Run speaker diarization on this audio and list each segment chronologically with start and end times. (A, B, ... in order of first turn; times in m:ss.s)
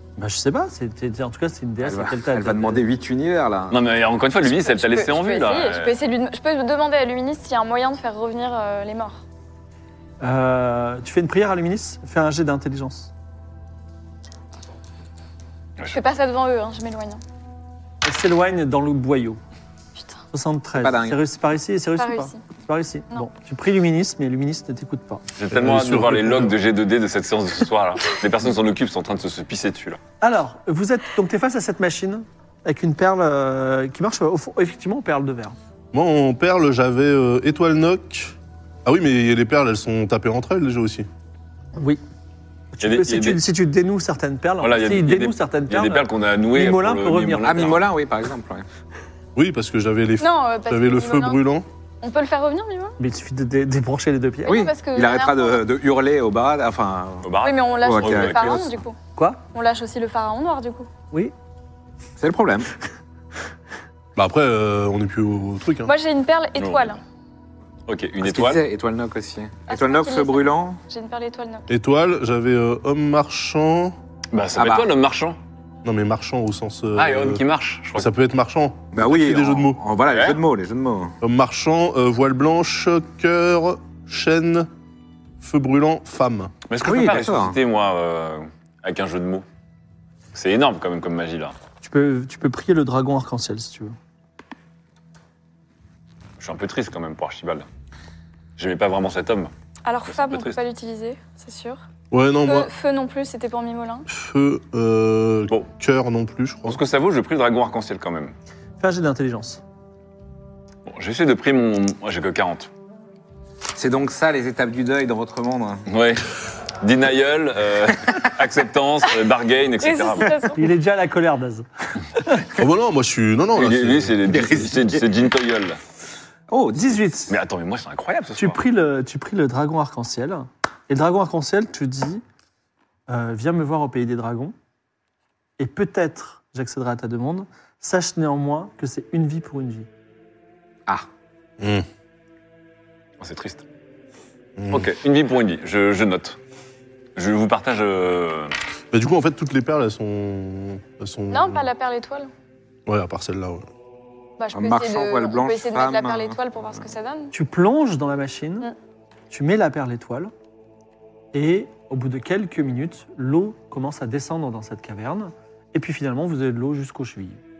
0:00.2-0:02.8 A
0:01.8-0:03.8 B
0:03.7-0:06.0 C
0:04.5-0:09.2 D
0:10.2-0:13.1 A
0:15.9-0:17.2 D
0:18.0-0:19.4 A
0:20.0-0:20.2 D
0:20.3-0:25.2 A
0:20.8-0:21.2 B
0:22.0-0:22.4 D
0:25.4-0:30.0 C
0:25.5-0:26.5 E
0:30.2-0:35.6 A
0:35.9-0:41.1 E
0:41.8-0:42.0 A
0:42.8-0:47.7 A
0:42.8-0:43.4 C
0:44.6-0:47.9 C
0:47.4-0:48.6 B
0:49.4-0:51.6 E
0:50.2-0:53.0 D
0:53.0-0:54.6 A
0:54.5-0:57.3 B
0:54.5-0:55.6 D
0:57.2-0:58.6 C
0:57.4-0:59.0 D
0:57.8-0:58.7 B
0:59.2-0:59.4 A
0:59.5-1:00.9 D
1:02.2-1:02.7 B
1:04.2-1:05.9 E
1:05.8-1:07.0 D
1:06.6-1:07.0 C
1:07.9-1:08.6 C
1:08.2-1:10.8 B
1:09.7-1:11.7 D
1:11.7-1:13.9 E
1:14.3-1:15.4 C
1:14.6-1:14.9 B
1:15.8-1:17.4 E
1:17.0-1:18.1 C
1:17.9-1:19.8 E
1:18.9-1:21.2 B
1:20.1-1:20.4 C
1:21.2-1:24.7 E
1:25.4-1:26.5 E
1:26.7-1:29.4 C
1:26.8-1:27.2 A
1:26.9-1:27.6 B
1:30.3-1:31.5 C
1:31.8-1:33.9 A
1:36.4-1:37.6 C
1:38.6-1:39.5 C
1:39.8-1:41.8 D
1:40.1-1:40.6 C
1:42.1-1:42.7 E
1:42.4-1:44.0 D
1:44.1-1:46.8 E
1:46.6-1:48.3 C
1:48.8-1:49.6 A
1:50.9-1:52.7 C
1:53.7-1:55.8 B
1:55.9-1:56.3 C
1:56.8-2:00.4 C
1:59.8-2:00.6 D
2:00.5-2:01.6 A
2:02.2-2:02.4 A
2:02.6-2:05.0 E
2:03.6-2:05.8 C
2:06.5-2:07.0 B
2:06.8-2:07.3 A
2:07.3-2:08.6 C
2:08.4-2:12.2 A
2:13.1-2:14.5 A
2:15.6-2:19.9 A
2:21.6-2:21.8 E
2:23.2-2:23.6 C
2:24.6-2:24.9 E
2:24.7-2:26.4 C
2:27.2-2:28.5 C
2:28.9-2:31.7 E
2:31.3-2:32.3 D
2:32.9-2:33.7 E
2:34.4-2:37.3 D
2:34.5-2:36.4 B
2:37.3-2:38.7 A
2:39.3-2:40.3 A
2:41.3-2:47.4 A